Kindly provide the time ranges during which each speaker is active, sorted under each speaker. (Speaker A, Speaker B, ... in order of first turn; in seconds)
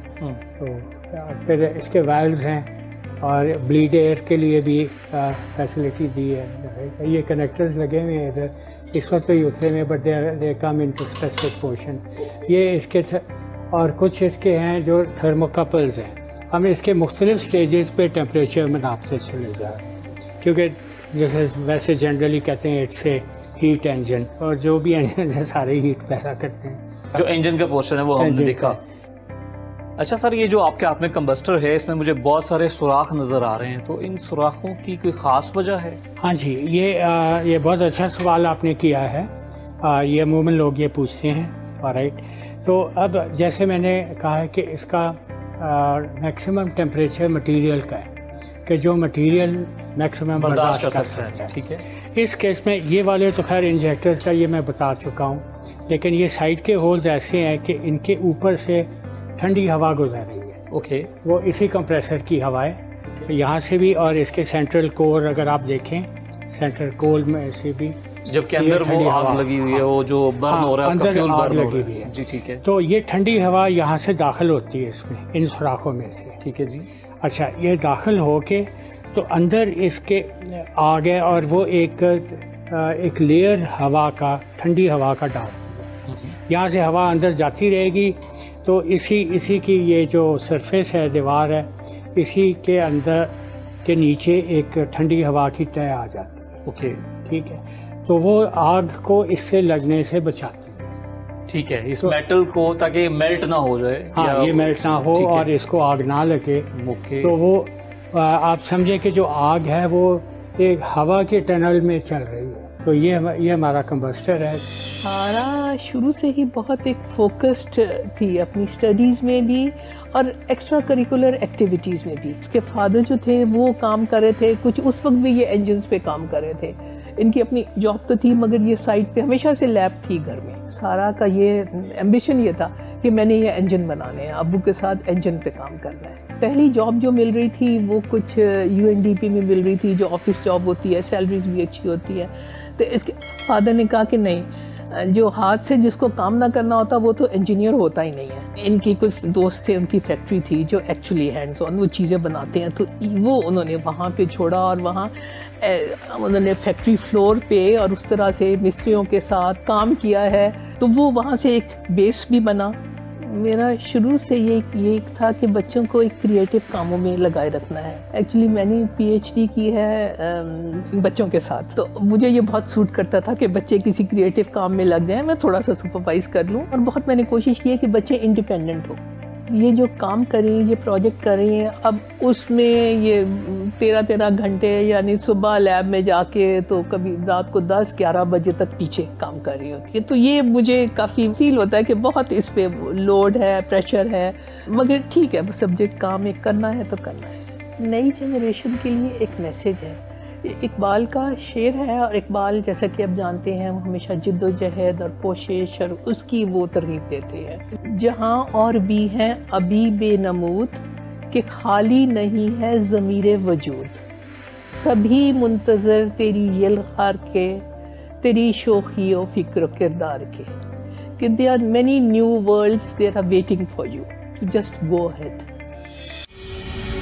Speaker A: 0.5-2.7, 3.2-27.2, 28.2-28.8, 36.2-48.1, 48.6-51.6, 52.1-60.6, 61.2-68.0, 68.6-69.8, 70.5-76.4, 77.2-85.9, 86.5-93.3, 93.8-96.5, 97.2-100.9, 104.1-106.7, 107.2-114.7
Speaker B: 27.1-28.8, 30.0-36.0, 50.4-51.8, 60.7-61.1, 68.3-72.6, 76.4-76.9, 96.7-97.0, 101.5-105.5, 106.7-107.3
Speaker C: 115.0-214.0, 214.7-217.7, 218.2-220.6, 221.2-225.5